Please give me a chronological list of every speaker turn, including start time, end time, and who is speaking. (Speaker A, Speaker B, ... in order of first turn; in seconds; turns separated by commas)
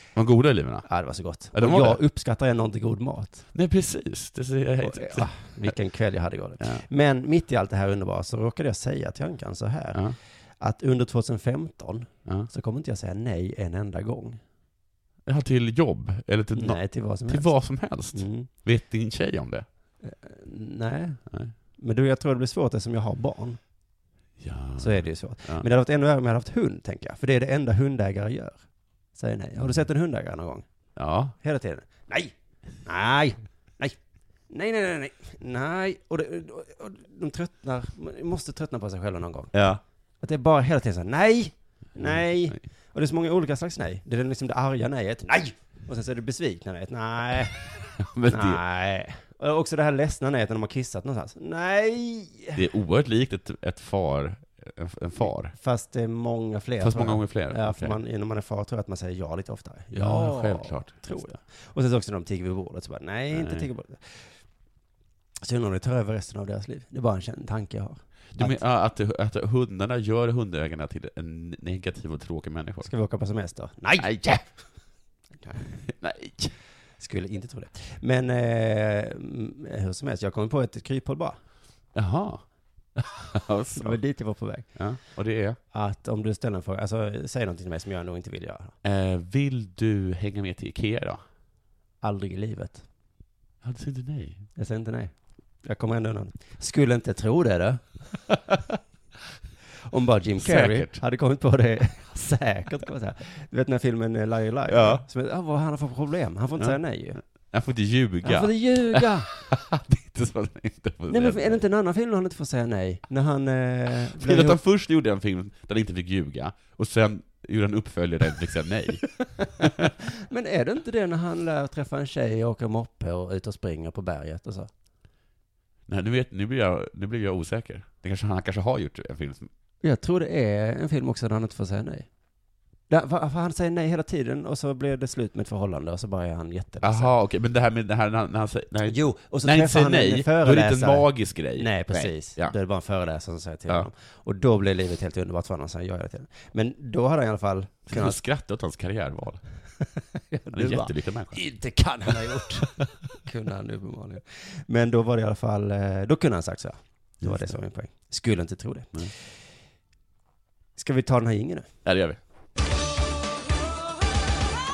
Speaker A: 0.1-0.9, Speaker B: 0.9-3.5, Speaker A: 1.5-2.0, Speaker A: 3.5-5.7, Speaker B: 4.8-14.4, Speaker A: 15.3-19.7, Speaker B: 16.5-17.5, Speaker B: 18.1-18.5, Speaker B: 20.0-21.2, Speaker B: 21.8-23.6, Speaker A: 24.4-25.7, Speaker B: 24.8-28.6, Speaker B: 29.1-30.7, Speaker A: 31.0-31.4, Speaker B: 31.4-34.0, Speaker B: 34.5-47.7, Speaker A: 39.5-39.8, Speaker A: 42.0-42.6, Speaker A: 48.0-48.6, Speaker B: 48.2-52.6, Speaker A: 52.5-55.5, Speaker B: 55.5-64.3, Speaker A: 56.8-58.0, Speaker A: 59.9-61.4, Speaker A: 63.3-63.7, Speaker B: 65.4-68.6, Speaker A: 68.3-72.9, Speaker B: 72.8-74.5, Speaker A: 74.0-74.4, Speaker B: 75.4-75.8, Speaker A: 75.8-76.5, Speaker B: 77.0-81.4, Speaker A: 81.9-82.4, Speaker A: 83.0-84.0, Speaker B: 83.8-84.8, Speaker A: 84.8-85.6, Speaker B: 85.7-88.8, Speaker A: 88.8-91.2, Speaker B: 92.0-92.8, Speaker A: 93.6-94.5, Speaker B: 94.6-98.1, Speaker B: 99.9-107.2, Speaker A: 100.4-101.0, Speaker A: 104.7-105.0, Speaker A: 107.5-111.6, Speaker B: 108.2-109.3, Speaker B: 111.1-114.6, Speaker A: 114.0-119.1, Speaker B: 119.2-124.7, Speaker A: 119.6-119.9, Speaker A: 125.9-129.5, Speaker B: 129.8-132.1, Speaker B: 132.9-137.1, Speaker A: 136.8-142.6, Speaker B: 138.8-148.2, Speaker A: 147.9-149.4, Speaker B: 150.3-159.2, Speaker A: 150.5-151.4, Speaker A: 157.2-157.6, Speaker B: 160.8-161.7, Speaker A: 161.8-162.2